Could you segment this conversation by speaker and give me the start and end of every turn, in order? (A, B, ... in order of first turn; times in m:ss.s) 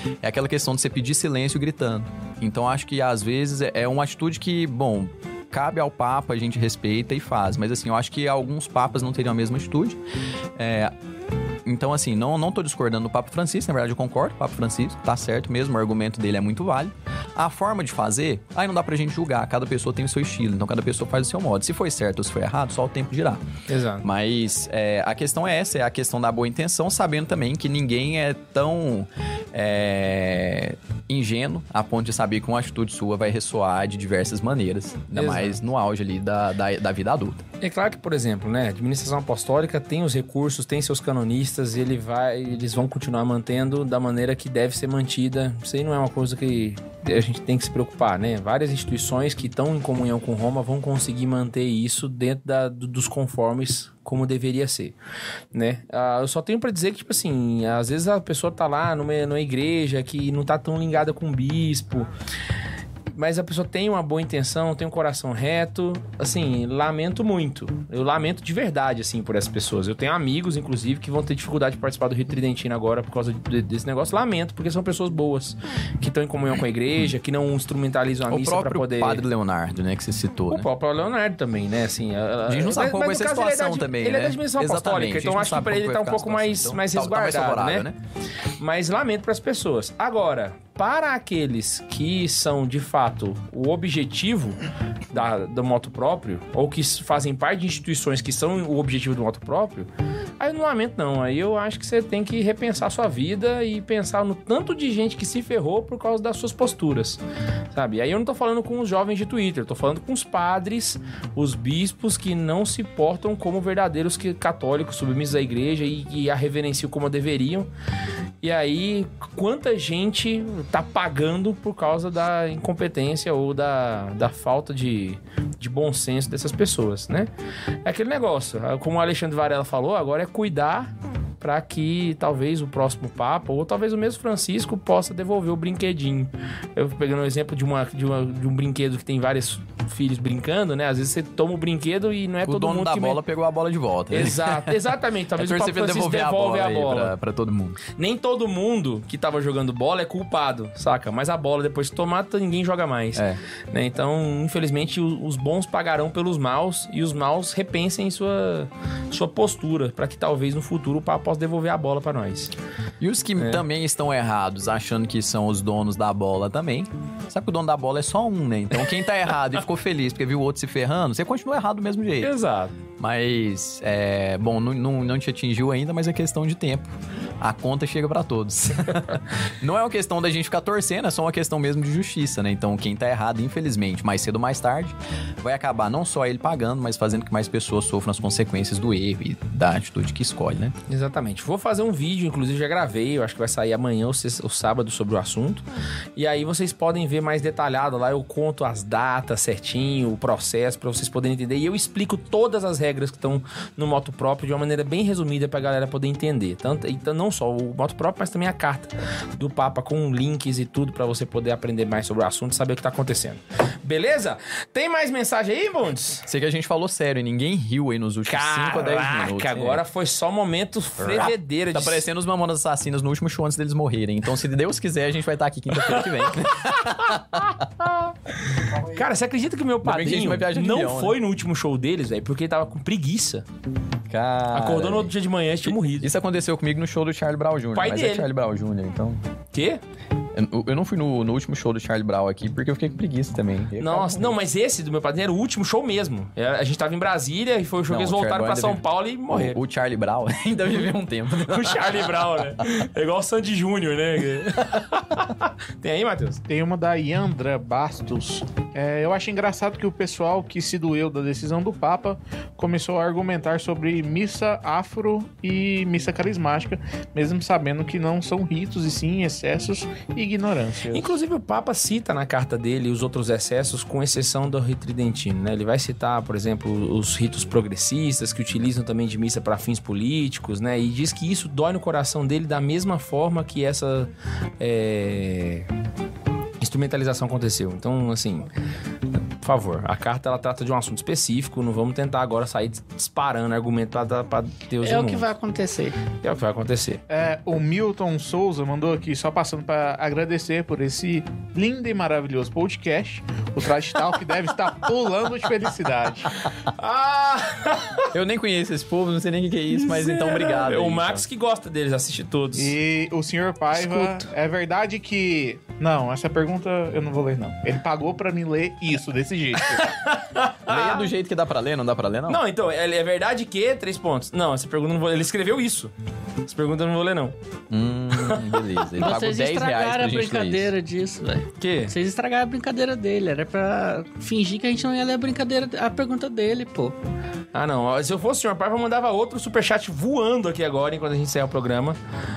0:00.2-0:10.0 A
0:10.6-0:10.9 A
0:11.6-0:23.4 A
0:23.7-0:24.0 B
0:24.0-0:37.4 A
0:35.1-0:35.6 B
0:37.6-0:54.9 B
0:55.5-1:02.1 B
1:03.1-1:19.2 B
1:18.3-1:20.7 A
1:20.5-1:27.8 B
1:22.5-1:28.0 A
1:28.6-1:34.6 B
1:35.1-1:39.9 B
1:40.4-1:47.2 B
1:47.7-1:57.7 B
1:58.4-2:07.3 B
2:07.8-2:23.2 B
2:22.4-2:24.8 A
2:24.1-2:27.1 B
2:25.4-2:27.8 A
2:27.9-2:42.5 B
2:33.1-2:33.4 A
2:43.0-2:52.3 A
2:43.4-2:43.6 B
2:52.2-2:52.7 B
2:53.0-3:10.7 A
3:10.9-3:15.6 B
3:16.2-3:36.2 B
3:36.2-3:39.8 A
3:38.3-3:42.1 B
3:41.0-3:47.8 A
3:45.8-3:46.8 B
3:48.6-3:53.4 B
3:49.8-3:51.2 A
3:54.1-3:55.1 A
3:54.5-3:56.1 B
3:55.7-3:59.2 A
3:57.7-3:58.3 B
3:59.5-3:59.8 B
4:00.3-4:04.4 A
4:03.8-4:09.6 B
4:07.9-4:12.6 A
4:11.4-4:16.4 B
4:16.5-4:31.1 C
4:30.9-4:45.7 B
4:46.6-4:48.5 B
4:49.4-4:55.3 B
4:54.8-4:56.0 D
4:56.2-4:57.0 B
4:57.1-5:06.5 C
5:06.6-5:08.1 B
5:08.1-5:11.3 A
5:09.7-5:12.7 B
5:12.5-5:19.9 C
5:13.7-5:14.3 D
5:19.6-5:21.1 B
5:20.7-5:22.4 A
5:22.3-5:25.9 B
5:26.4-5:27.3 B
5:27.7-5:30.7 A
5:28.2-5:28.5 B
5:29.0-5:37.0 D
5:31.6-5:31.9 B
5:37.5-5:42.0 B